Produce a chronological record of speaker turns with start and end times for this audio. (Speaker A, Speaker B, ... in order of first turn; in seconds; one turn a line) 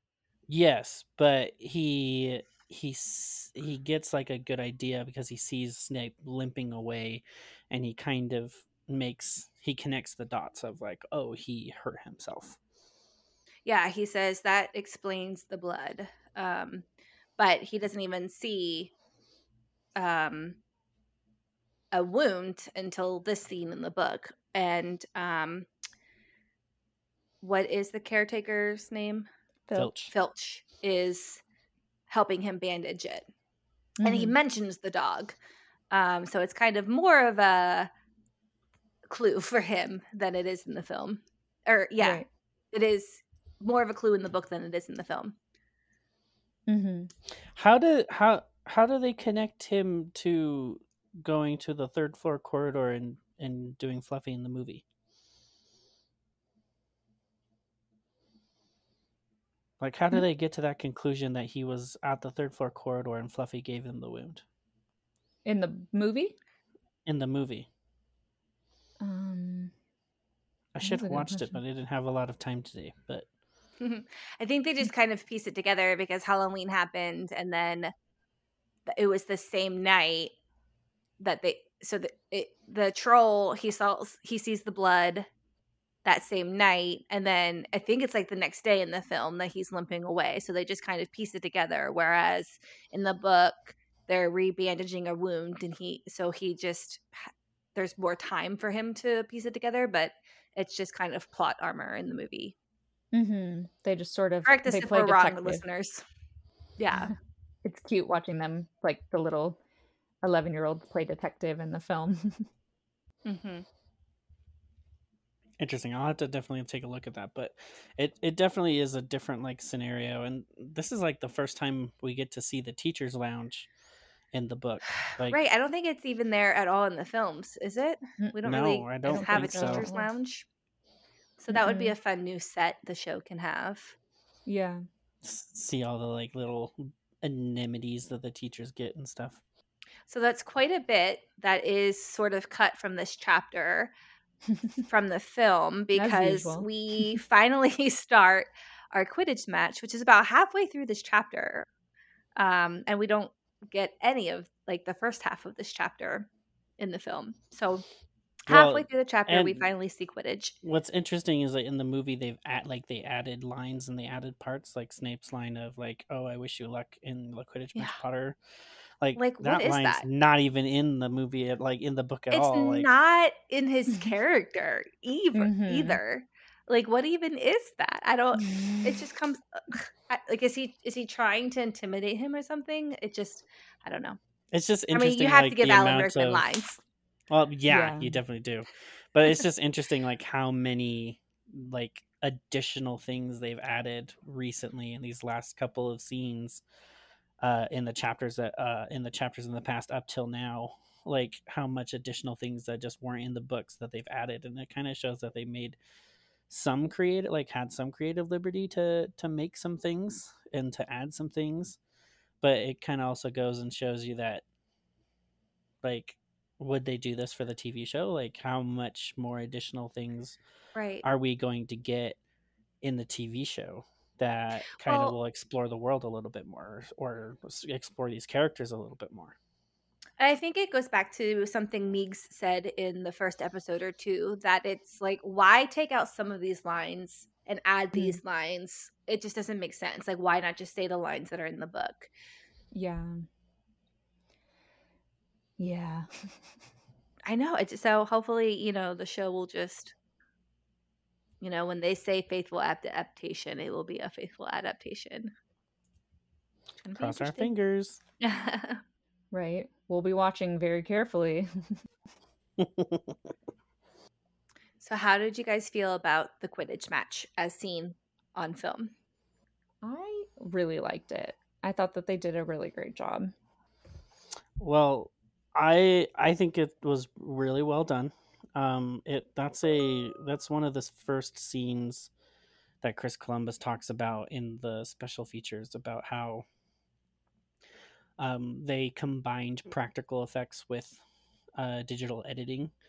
Speaker A: 0.5-12.6
Speaker B: 13.7-16.8
Speaker B: 17.4-18.9
Speaker B: 20.0-20.6
Speaker B: 21.9-25.7
Speaker B: 27.4-29.3
Speaker A: 29.7-30.1
Speaker B: 30.1-31.4
Speaker B: 32.1-33.3
Speaker C: 34.0-34.3
Speaker B: 34.0-35.4
Speaker B: 35.9-37.9
Speaker B: 39.1-45.4
Speaker C: 42.0-42.3
Speaker C: 46.7-47.1
Speaker A: 47.5-54.8
Speaker A: 59.8-64.4
Speaker C: 65.4-66.4
Speaker A: 67.0-67.7
Speaker C: 69.0-69.7
Speaker A: 70.7-73.2
Speaker C: 70.8-71.6
Speaker B: 73.8-77.9
Speaker B: 78.9-80.3
Speaker B: 81.2-85.3
Speaker B: 86.0-102.5
Speaker C: 103.1-105.6
Speaker B: 104.4-106.0
Speaker B: 106.8-107.1
Speaker C: 107.6-109.6
Speaker C: 110.2-112.5
Speaker B: 113.2-113.6
Speaker A: 115.6-123.7
Speaker A: 124.3-125.4
Speaker B: 125.3-130.4
Speaker A: 128.4-129.9
Speaker C: 129.0-130.1
Speaker B: 131.4-133.9
Speaker C: 131.5-131.9
Speaker C: 134.4-134.8
Speaker A: 135.2-139.4
Speaker B: 140.1-143.9
Speaker B: 144.9-151.7
Speaker C: 145.9-147.2
Speaker B: 152.4-156.3
Speaker B: 156.8-157.8
Speaker A: 158.5-159.6
Speaker B: 158.5-160.5
Speaker A: 160.6-168.4
Speaker A: 169.0-172.9
Speaker B: 169.2-170.0
Speaker B: 172.3-184.2
Speaker C: 175.3-176.0
Speaker C: 178.4-179.0
Speaker A: 184.5-186.5
Speaker B: 184.9-186.8
Speaker A: 187.3-196.6
Speaker C: 187.7-188.2
Speaker A: 197.4-205.8
Speaker A: 206.5-211.8
Speaker A: 212.4-214.4
Speaker A: 215.8-220.4
Speaker B: 220.7-221.0
Speaker A: 221.0-222.2
Speaker A: 222.8-229.3
Speaker B: 224.8-225.1
Speaker B: 230.2-242.1
Speaker C: 237.9-238.2
Speaker C: 242.7-243.2
Speaker C: 245.6-246.3
Speaker B: 247.2-249.9
Speaker B: 251.4-255.3
Speaker B: 256.8-257.5
Speaker A: 256.9-258.0
Speaker B: 258.2-258.8
Speaker C: 259.3-261.8
Speaker A: 262.6-263.1
Speaker B: 264.8-268.9
Speaker C: 269.8-273.3
Speaker A: 274.6-282.1
Speaker A: 282.8-286.4
Speaker A: 288.2-291.0
Speaker A: 291.6-292.7